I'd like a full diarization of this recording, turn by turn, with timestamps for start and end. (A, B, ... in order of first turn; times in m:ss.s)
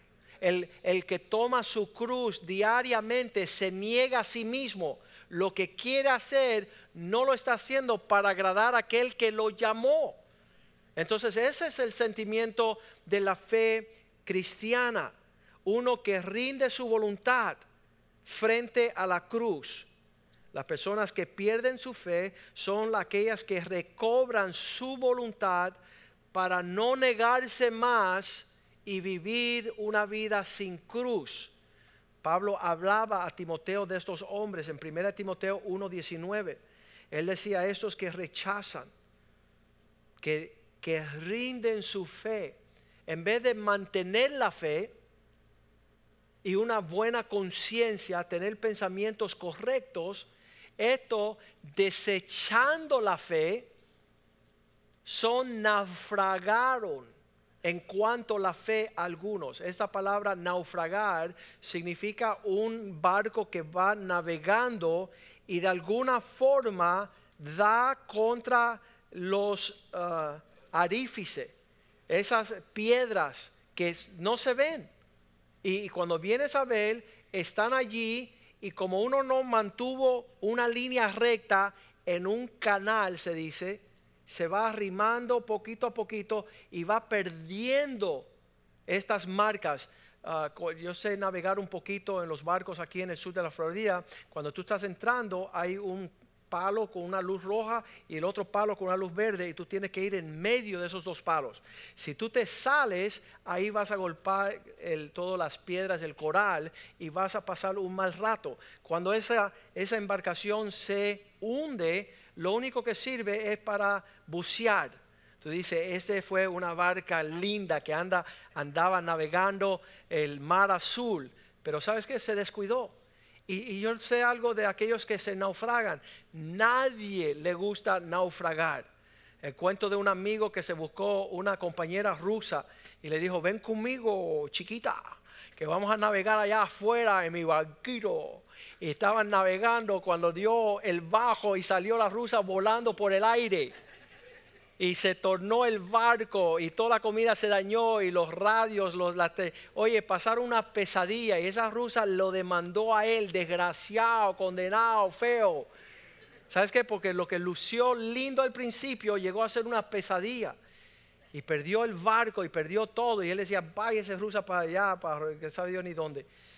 0:00.4-0:10.2 A
0:11.0-0:15.1 A
0:15.6-0:17.6 A
0:18.2-0:19.9 A
0:20.5-0:25.8 A
0:26.3-0:31.5 A
0:32.2-0:36.6 A
0:37.1-0:38.9 A
0:40.2-0:44.9 A
0:46.4-0:53.7 A
0:55.0-0:57.1 A
0:57.6-1:11.5 A
1:12.1-1:14.9 A
1:15.6-1:28.3 A
1:28.9-2:02.9 A
2:03.5-2:08.9 A
2:09.4-2:23.7 A
2:24.8-2:35.7 A
2:36.5-2:40.6 A
2:41.3-2:46.3 A